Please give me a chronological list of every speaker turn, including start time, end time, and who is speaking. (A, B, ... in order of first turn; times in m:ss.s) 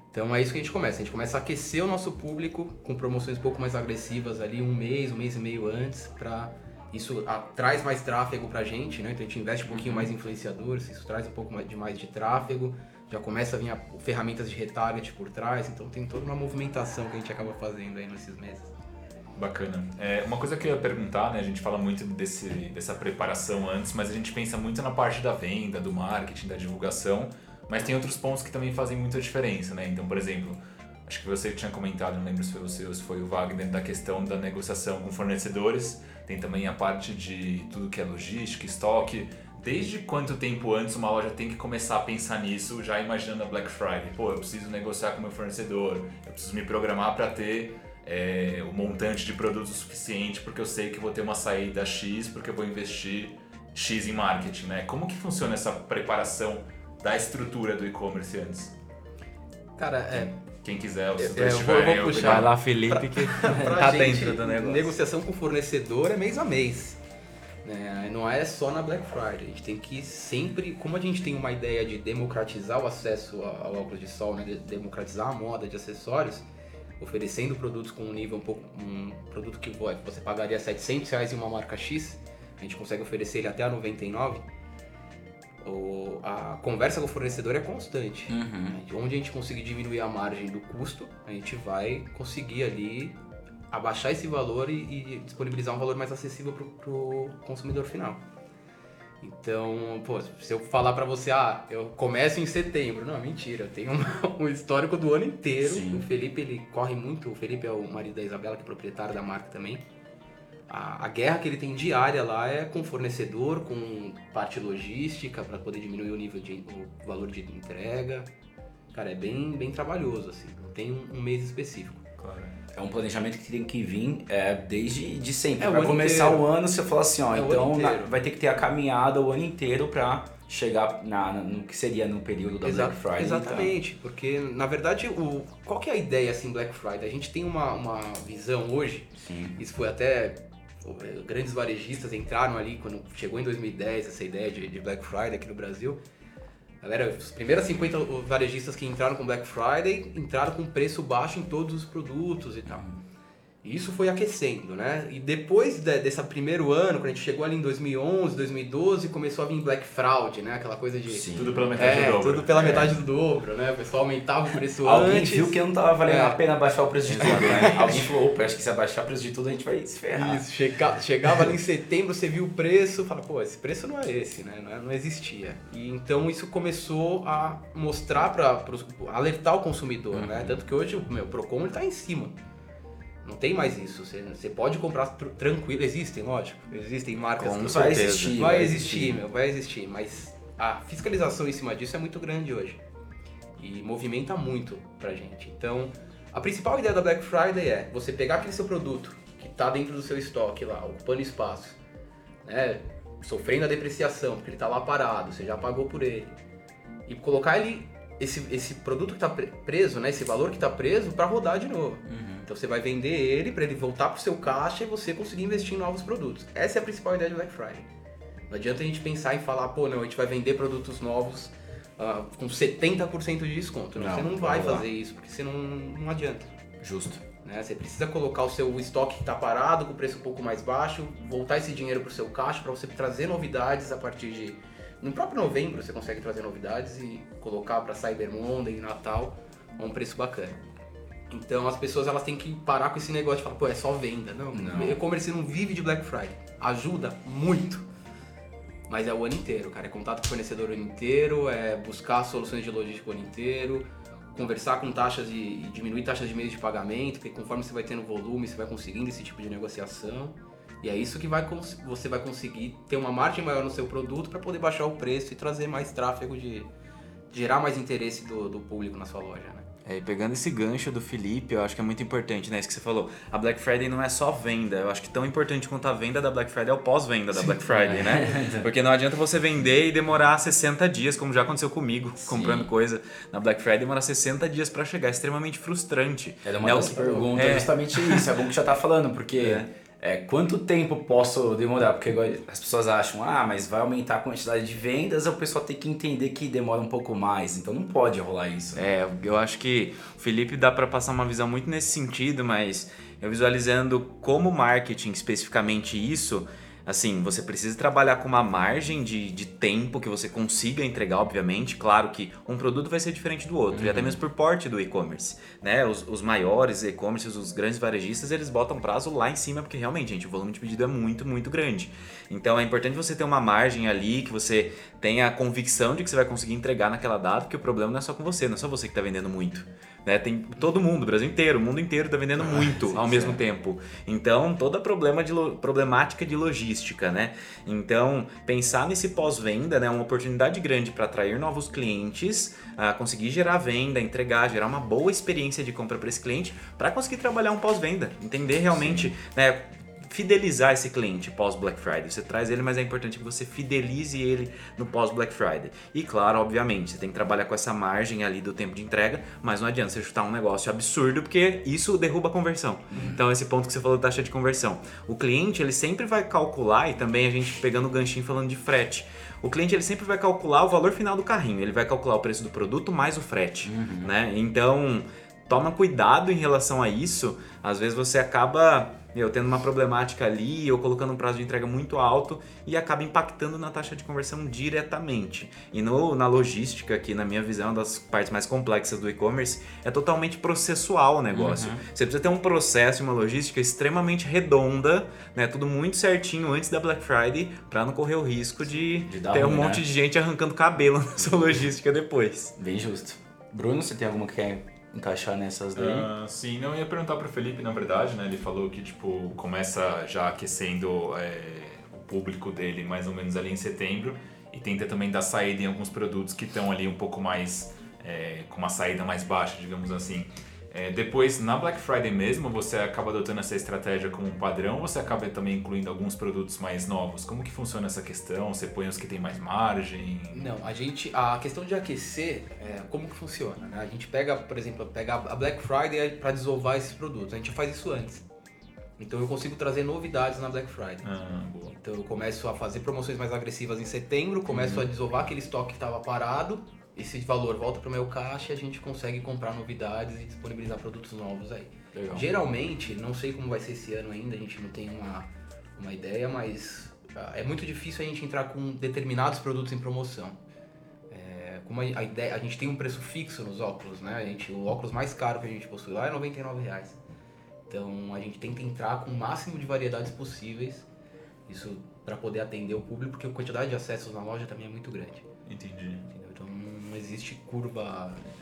0:00.1-0:18.7 A
0:09.7-0:10.0 B
0:19.4-0:58.7 B
0:59.8-1:00.3 A
1:00.1-1:02.5 B
1:01.2-1:07.0 A
1:02.1-1:04.9 C
1:07.6-1:16.4 A
1:17.0-1:24.4 A
1:25.6-1:33.2 A
1:28.3-1:28.8 D
1:33.7-1:38.2 A
1:39.2-1:49.8 A
1:45.6-1:46.0 D
1:50.7-1:58.3 A
1:58.9-2:02.0 A
2:02.2-2:02.6 B
2:02.7-2:13.8 D
2:05.6-2:06.4 A
2:07.3-2:08.1 A
2:12.6-2:26.0 A
2:19.2-2:19.6 D
2:26.8-2:32.8 A
2:32.7-2:33.0 D
2:33.6-2:46.4 A
2:41.1-2:41.7 D
2:41.3-2:43.0 B
2:44.8-2:50.4 D
2:47.1-2:47.9 C
2:47.1-2:48.1 A
2:50.1-3:02.4 A
3:00.1-3:00.5 D
3:03.2-3:12.8 A
3:07.4-3:08.5 C
3:07.5-3:09.2 D
3:13.6-3:21.8 A
3:22.4-3:26.3 A
3:27.0-3:37.9 A
3:32.1-3:32.4 D
3:38.5-3:46.5 A
3:44.0-3:44.9 D
3:46.8-3:47.2 D
3:47.4-4:00.6 A
4:01.3-4:07.8 A
4:04.5-4:05.0 D
4:08.9-4:26.7 A
4:27.3-4:29.6 A
4:29.8-4:48.2 C
4:37.3-4:38.7 D
4:42.2-4:42.7 D
4:46.4-4:58.8 D
4:46.8-4:47.2 A
4:49.4-4:49.6 C
4:58.8-6:42.5 C
5:13.7-5:14.2 D
5:32.4-5:33.4 D
6:02.9-6:03.2 D
6:13.6-6:14.1 D
6:31.3-6:31.8 D
6:39.1-6:39.8 D
6:42.6-6:46.1 D
6:45.7-7:10.5 B
7:10.3-7:18.2 A
7:19.0-7:21.0 A
7:21.0-7:21.8 B
7:21.8-7:40.4 A
7:24.5-7:24.9 D
7:31.9-7:32.3 D
7:41.1-7:47.0 A
7:47.7-7:50.8 A
7:51.5-7:55.2 A
7:55.4-7:56.1 B
7:56.1-7:58.2 A